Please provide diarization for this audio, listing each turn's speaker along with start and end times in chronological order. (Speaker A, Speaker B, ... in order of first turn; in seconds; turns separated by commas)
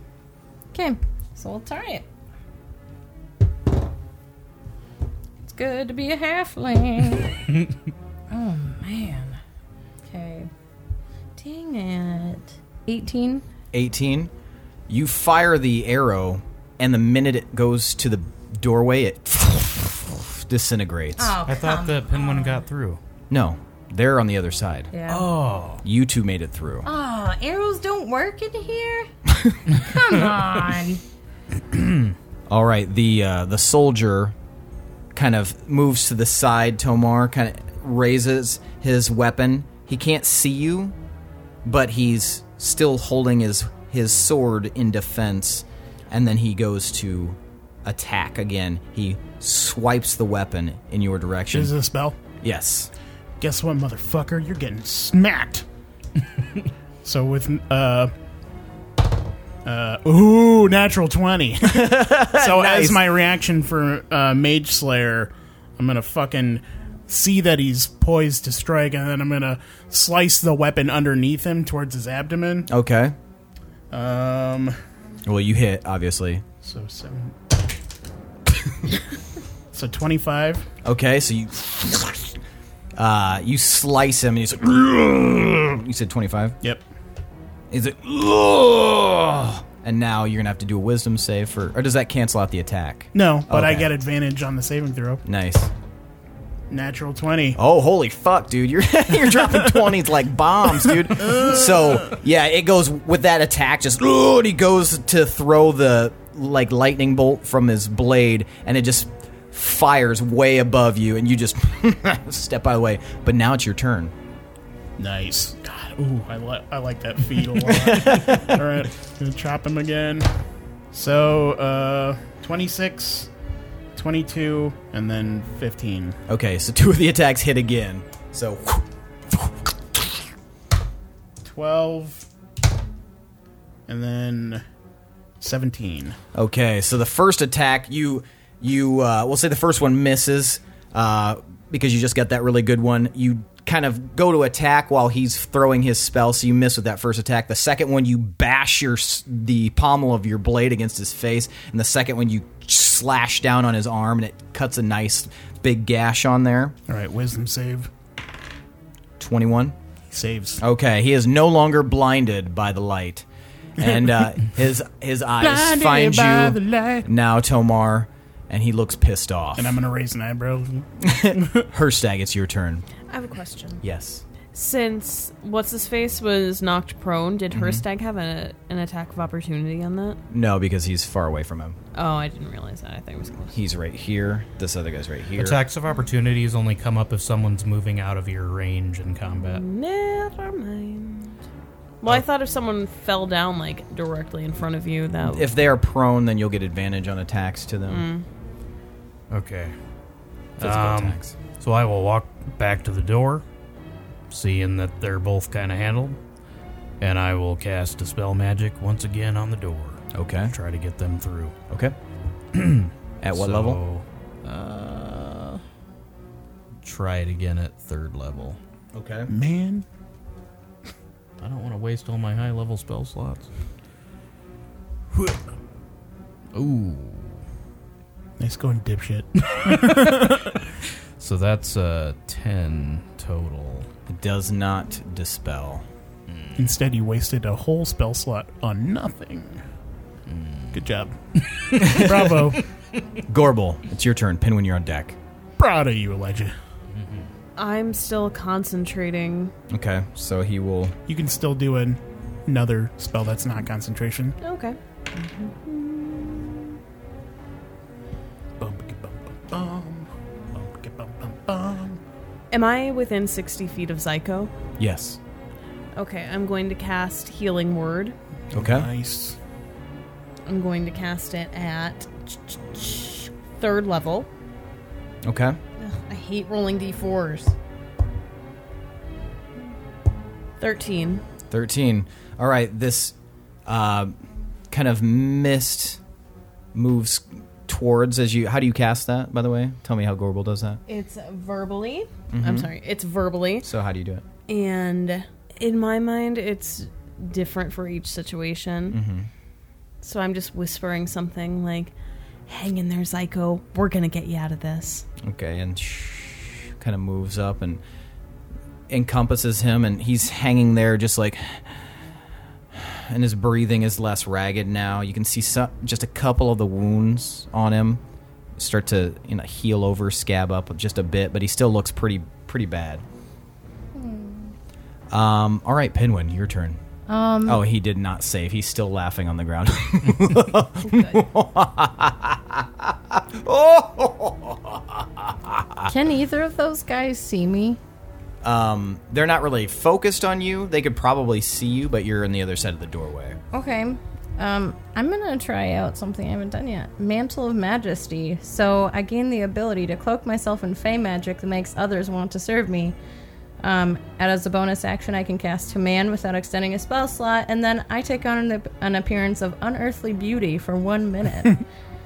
Speaker A: 0.7-2.0, Speaker A: 5.4-7.5, Speaker A: 8.3-9.4, Speaker A: 10.0-10.5, Speaker A: 11.3-13.4, Speaker B: 13.7-14.3, Speaker B: 14.9-21.4, Speaker A: 21.2-22.6, Speaker C: 21.4-23.0, Speaker B: 23.3-24.9, Speaker A: 24.9-25.3, Speaker C: 25.1-25.8, Speaker B: 25.8-26.9, Speaker A: 26.8-29.1, Speaker A: 29.7-31.0, Speaker B: 32.5-34.3, Speaker B: 35.1-41.0, Speaker B: 41.6-51.8, Speaker D: 51.5-52.2, Speaker B: 52.4-52.9, Speaker D: 53.4-55.6, Speaker D: 57.0-58.1, Speaker D: 59.6-72.7, Speaker B: 61.6-63.1, Speaker B: 72.7-73.1, Speaker D: 73.9-74.7, Speaker B: 75.2-76.4, Speaker D: 76.6-77.3, Speaker D: 79.7-80.7, Speaker B: 80.8-82.3, Speaker B: 83.0-86.5, Speaker B: 87.7-93.9, Speaker D: 93.1-95.2, Speaker B: 95.2-95.7, Speaker D: 96.7-97.6, Speaker B: 97.5-114.1, Speaker D: 115.0-120.3, Speaker B: 117.7-118.6, Speaker D: 120.9-123.3, Speaker D: 123.9-126.2, Speaker B: 126.3-130.1, Speaker D: 131.4-132.3, Speaker D: 133.9-134.6, Speaker D: 135.4-136.2, Speaker B: 136.3-156.8, Speaker D: 156.9-157.9, Speaker B: 159.2-159.8, Speaker D: 160.1-160.6, Speaker B: 160.6-163.2, Speaker B: 163.8-169.8, Speaker D: 165.4-167.1, Speaker D: 169.6-171.7, Speaker B: 171.0-172.8, Speaker E: 173.1-173.8, Speaker B: 173.8-174.2, Speaker E: 174.5-180.2, Speaker B: 177.5-177.8, Speaker B: 180.3-181.8, Speaker E: 181.9-183.6, Speaker B: 183.5-185.6, Speaker C: 185.3-189.6, Speaker E: 189.4-191.3, Speaker E: 192.0-195.5, Speaker B: 195.3-198.0, Speaker E: 197.9-198.2, Speaker C: 199.3-199.7, Speaker B: 200.6-201.3, Speaker C: 200.6-203.4, Speaker C: 204.3-206.2, Speaker C: 207.0-211.5, Speaker B: 210.1-210.5, Speaker B: 211.7-211.9, Speaker C: 212.5-215.6, Speaker B: 213.2-213.8, Speaker C: 216.8-218.6, Speaker B: 218.9-219.3, Speaker D: 219.3-219.8, Speaker C: 221.4-223.5, Speaker C: 226.5-227.4, Speaker D: 228.4-230.5, Speaker C: 229.5-230.6, Speaker C: 231.2-233.9, Speaker B: 234.1-235.8, Speaker C: 236.3-236.7, Speaker D: 236.6-239.6, Speaker C: 240.3-240.7, Speaker D: 240.7-242.6, Speaker B: 241.8-242.2, Speaker B: 243.3-245.2, Speaker D: 245.6-246.5, Speaker C: 246.9-247.2, Speaker E: 247.6-249.5, Speaker B: 249.7-250.9, Speaker D: 251.1-254.4, Speaker E: 254.4-256.5, Speaker D: 258.6-262.0, Speaker E: 262.5-264.5, Speaker B: 264.8-265.2, Speaker E: 265.9-268.1, Speaker D: 268.5-269.4, Speaker B: 268.5-268.9, Speaker E: 270.4-274.3, Speaker B: 275.2-275.6, Speaker E: 275.8-277.5, Speaker E: 280.6-281.2, Speaker B: 281.5-283.1, Speaker B: 283.6-284.1, Speaker B: 284.7-286.0, Speaker B: 286.7-290.8, Speaker E: 290.9-293.7, Speaker B: 292.3-292.7, Speaker B: 293.6-294.2, Speaker E: 294.5-299.0, Speaker B: 298.9-299.3, Speaker E: 300.0-301.9, Speaker E: 302.4-305.1, Speaker B: 305.2-307.8, Speaker B: 308.9-312.0, Speaker B: 312.7-318.0, Speaker B: 318.6-323.0, Speaker A: 323.9-324.5, Speaker B: 325.1-326.8, Speaker A: 327.1-327.6, Speaker B: 327.4-335.9, Speaker E: 330.8-331.2, Speaker A: 335.9-337.8, Speaker B: 338.4-343.4, Speaker A: 343.5-352.9, Speaker A: 353.6-361.6